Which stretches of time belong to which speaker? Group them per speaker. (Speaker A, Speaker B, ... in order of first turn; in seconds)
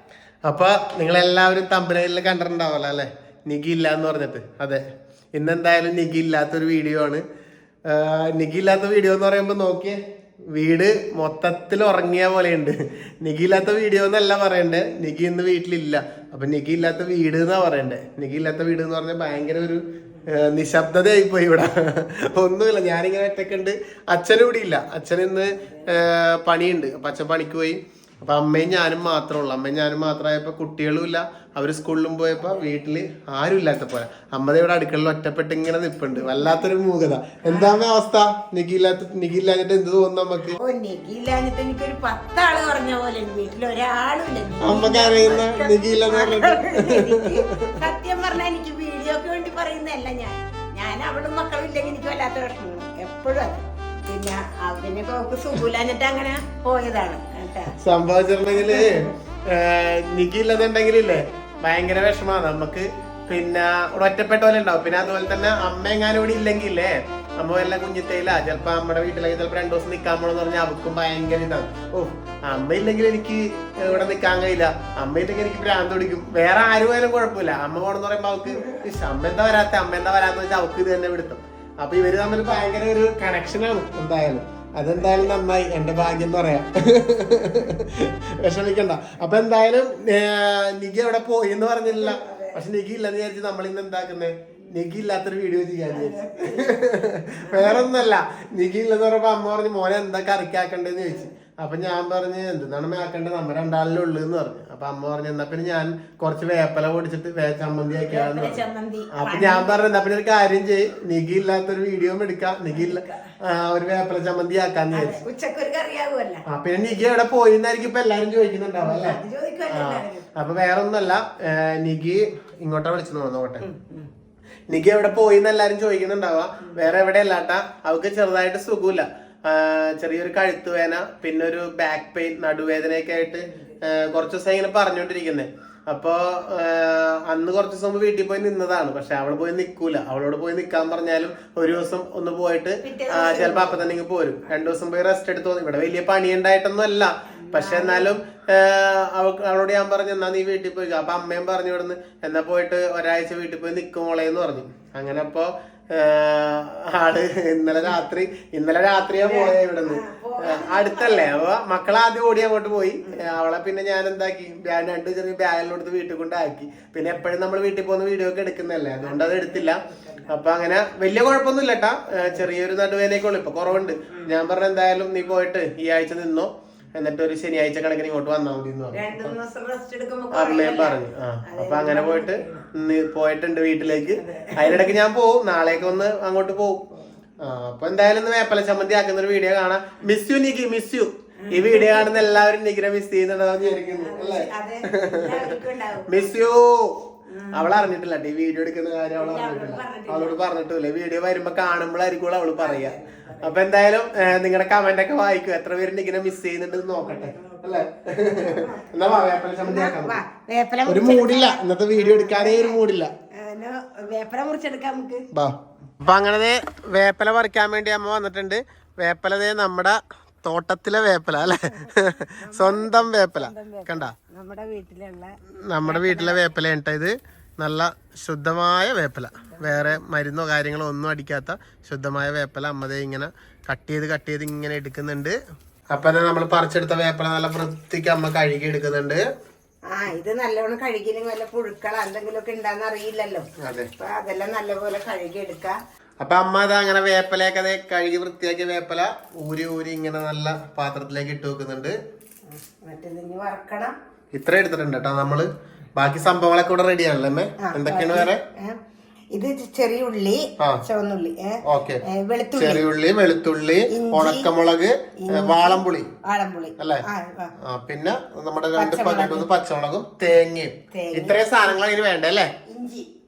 Speaker A: 0.4-4.8, 5.3-7.2, 7.9-10.0, 10.5-40.6, 44.6-47.8, 57.8-108.6, 109.1-115.2, 116.5-123.7, 124.7-179.3, 180.3-186.8, 187.4-195.5, 196.1-197.0, 197.5-210.2, 210.8-213.1, 215.3-224.1, 225.7-235.4, 235.9-239.2, 243.6-243.9, 246.2-251.9, 254.3-258.4, 260.6-260.8, 261.6-262.0, 262.6-266.1, 266.8-267.1, 267.6-272.5
Speaker B: 25.6-25.9, 37.5-37.8, 40.6-57.8, 58.5-59.1, 73.8-74.2, 78.5-78.8, 85.0-85.3, 91.8-92.6, 95.9-97.9, 108.1-110.0, 112.7-113.2, 114.9-116.4, 118.8-120.5, 123.6-124.1, 142.8-143.9, 147.5-148.1, 159.2-161.4, 169.0-170.3, 174.1-174.3, 178.9-182.7, 184.2-185.0, 191.4-192.3, 193.6-196.1, 197.3-197.9, 199.1-200.5, 202.6-203.6, 207.0-212.8, 213.3-215.3, 221.7-226.4, 229.5-229.9, 239.9-243.4, 244.0-245.8, 252.5-253.9, 257.6-258.8, 259.3-262.9, 263.9-264.5, 265.2-267.5, 268.8-269.5, 270.9-271.7, 272.6-273.1